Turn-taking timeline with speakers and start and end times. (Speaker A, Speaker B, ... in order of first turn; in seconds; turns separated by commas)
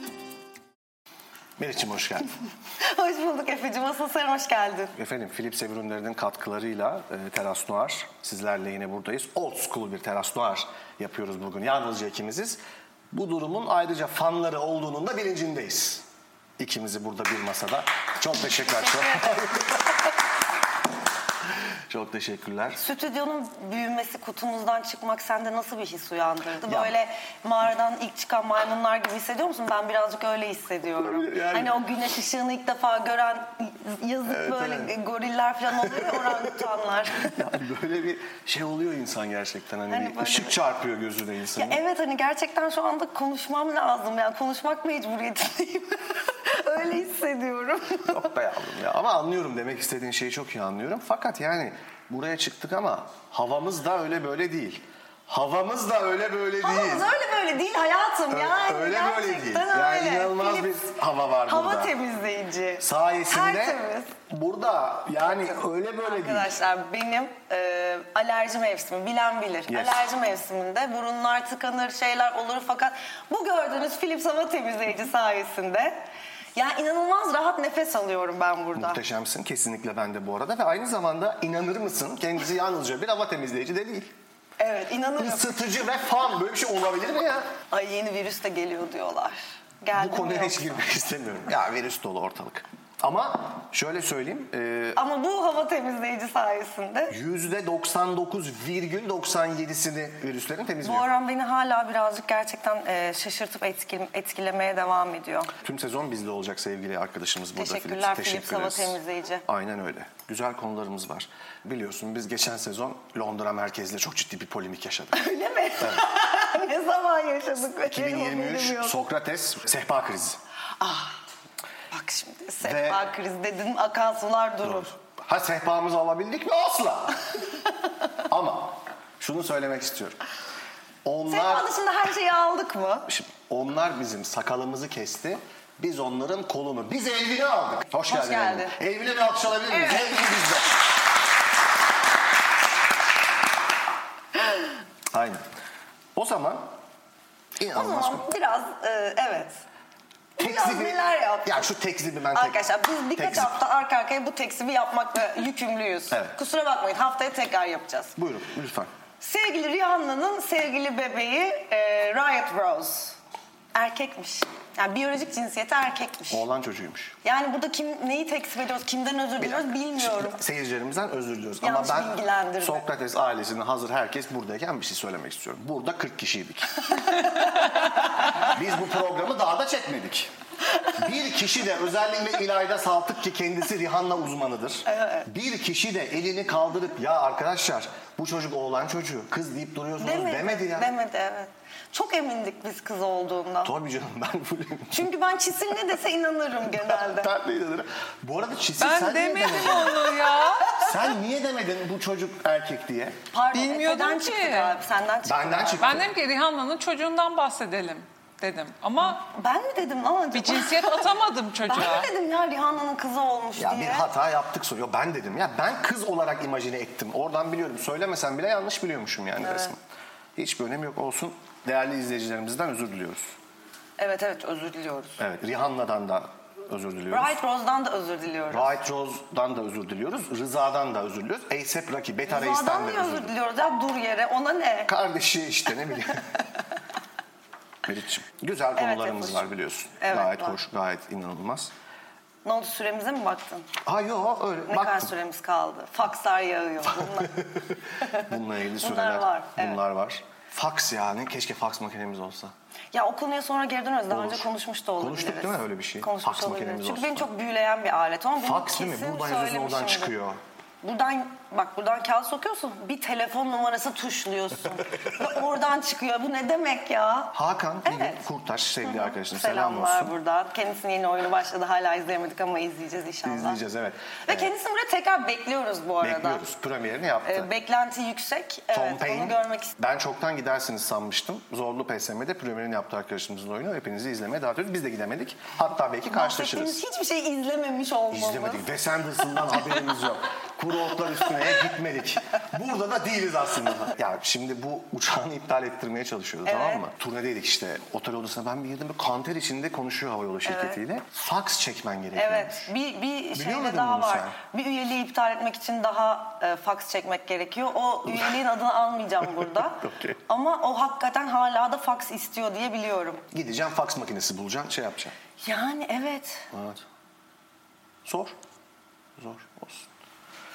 Speaker A: 1.6-2.3, Speaker B: 2.8-5.0, Speaker A: 5.0-12.6, Speaker A: 13.1-16.1, Speaker A: 16.6-20.0, Speaker B: 18.9-19.4, Speaker A: 21.9-22.8, Speaker B: 22.8-37.4, Speaker A: 26.6-26.9, Speaker A: 31.0-31.7, Speaker A: 34.3-34.9, Speaker A: 35.8-36.5, Speaker A: 37.2-41.8, Speaker B: 39.9-40.6, Speaker B: 41.6-48.3, Speaker A: 48.1-57.1, Speaker B: 56.6-61.0, Speaker A: 58.3-62.0, Speaker B: 61.5-64.2, Speaker A: 62.8-66.6, Speaker B: 66.0-76.0, Speaker A: 69.7-70.1, Speaker B: 76.6-79.0, Speaker A: 78.8-84.1, Speaker B: 84.6-85.6, Speaker A: 85.2-87.5, Speaker B: 87.7-90.6, Speaker A: 89.9-95.0, Speaker B: 95.0-97.2, Speaker A: 97.1-101.1, Speaker B: 100.8-105.5, Speaker A: 105.6-115.2, Speaker B: 107.6-109.5, Speaker B: 115.1-119.0, Speaker A: 115.8-116.1, Speaker A: 117.9-120.4, Speaker B: 120.8-121.2, Speaker B: 121.9-124.9, Speaker A: 122.6-123.0, Speaker A: 124.6-127.4, Speaker A: 128.3-130.2, Speaker A: 131.1-131.7, Speaker B: 131.3-133.1, Speaker A: 133.1-140.8, Speaker B: 138.1-138.8, Speaker B: 139.8-140.2, Speaker A: 145.1-145.4, Speaker A: 146.2-146.7, Speaker A: 147.6-148.2, Speaker B: 147.7-149.6, Speaker B: 150.4-151.7, Speaker A: 150.4-152.6, Speaker B: 152.3-158.2, Speaker A: 153.2-153.5, Speaker A: 158.2-158.9, Speaker B: 159.2-163.2, Speaker B: 163.8-166.4, Speaker A: 166.3-167.2, Speaker B: 167.2-170.4, Speaker A: 169.4-177.5, Speaker B: 171.6-172.8, Speaker B: 177.1-177.8, Speaker A: 178.3-180.3, Speaker A: 180.9-190.9, Speaker B: 184.9-185.3, Speaker B: 190.0-193.7, Speaker A: 193.6-195.1, Speaker B: 194.9-197.3, Speaker A: 196.7-200.1, Speaker C: 198.8-200.8, Speaker B: 200.2-200.9, Speaker A: 200.7-203.2, Speaker B: 203.3-206.0, Speaker C: 203.5-204.8, Speaker A: 205.2-206.1, Speaker C: 205.8-209.2, Speaker B: 209.0-211.1, Speaker C: 210.3-212.1, Speaker B: 211.7-214.1, Speaker A: 213.6-219.8, Speaker B: 219.4-219.7, Speaker A: 220.4-223.3, Speaker B: 224.0-225.2, Speaker A: 225.2-227.4, Speaker B: 227.1-228.8, Speaker A: 228.5-233.3, Speaker B: 232.3-234.9, Speaker A: 234.9-236.3, Speaker A: 237.8-241.7, Speaker B: 238.8-239.4, Speaker B: 240.0-240.6, Speaker B: 242.4-243.7, Speaker A: 243.8-245.1, Speaker B: 244.7-247.4, Speaker A: 246.9-247.5, Speaker B: 248.0-249.8, Speaker A: 248.1-252.5, Speaker B: 252.9-260.1, Speaker A: 254.1-257.3, Speaker A: 258.4-260.4, Speaker B: 260.8-268.2, Speaker A: 267.3-270.1, Speaker B: 268.8-273.6, Speaker A: 273.2-274.5, Speaker B: 274.3-276.4, Speaker A: 276.0-277.5, Speaker B: 277.2-279.8, Speaker A: 278.7-286.8, Speaker B: 286.1-288.6, Speaker A: 288.1-302.7, Speaker B: 296.5-296.9, Speaker B: 300.5-300.8, Speaker B: 302.2-313.2, Speaker A: 303.3-304.4, Speaker A: 309.7-310.2, Speaker A: 313.3-315.1, Speaker B: 315.4-316.5, Speaker A: 316.5-316.8, Speaker A: 318.1-318.4, Speaker A: 319.2-319.9